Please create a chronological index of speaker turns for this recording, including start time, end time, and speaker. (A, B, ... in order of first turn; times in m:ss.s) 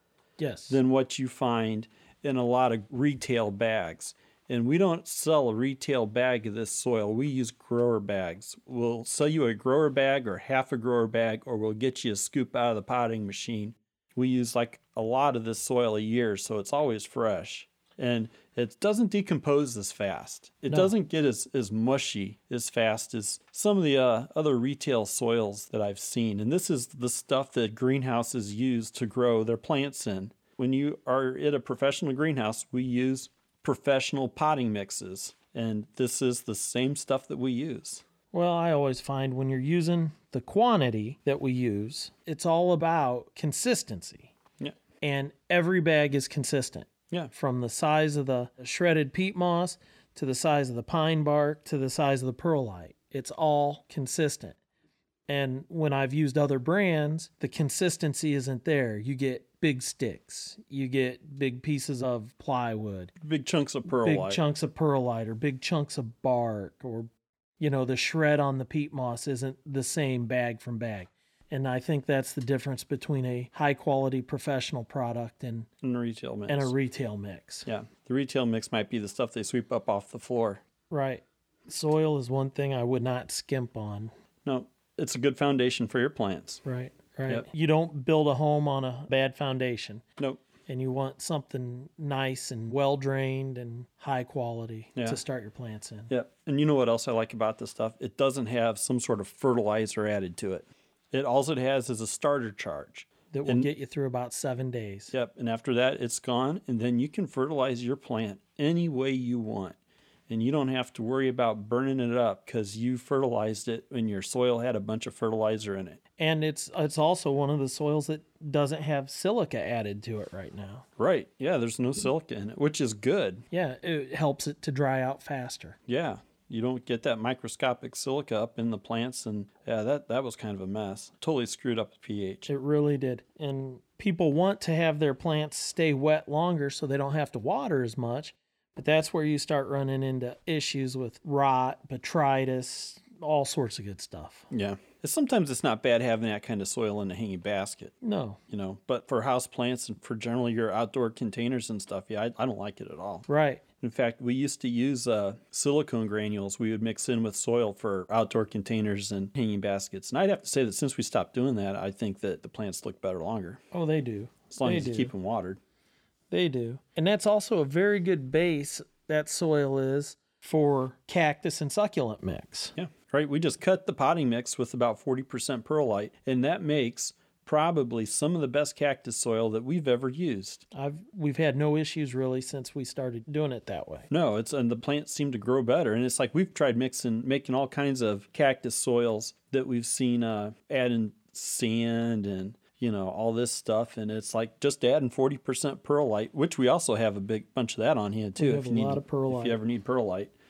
0:00.4-0:00.8 A
0:00.7-0:38.0 B
0:38.3-0:44.3 A
0:45.0-0:54.6 A
0:55.3-1:03.1 A
1:03.2-1:04.4 B
1:03.9-1:15.7 A
1:15.8-1:16.7 B
1:16.5-1:17.7 A
1:17.6-1:20.6 B
1:20.9-1:24.1 A
1:24.4-1:26.6 B
1:26.6-1:30.0 A
1:30.7-1:36.1 A
1:36.1-1:43.7 B
1:43.3-1:45.1 A
1:45.1-1:49.8 B
1:50.3-1:56.0 B
1:56.2-2:00.9 A
2:01.0-2:03.4 B
2:03.5-2:05.8 A
2:05.9-2:12.5 B
2:12.5-2:24.5 A
2:24.5-2:27.9 B
2:28.0-2:28.4 A
2:28.5-2:33.3 B
2:33.3-2:33.6 A
2:33.8-2:43.6 B
2:43.7-2:45.1 A
2:44.5-2:45.6 B
2:46.3-2:52.8 A
2:52.8-3:00.6 B
3:00.7-3:04.1 A
3:04.1-3:20.3 B
3:18.4-3:19.6 A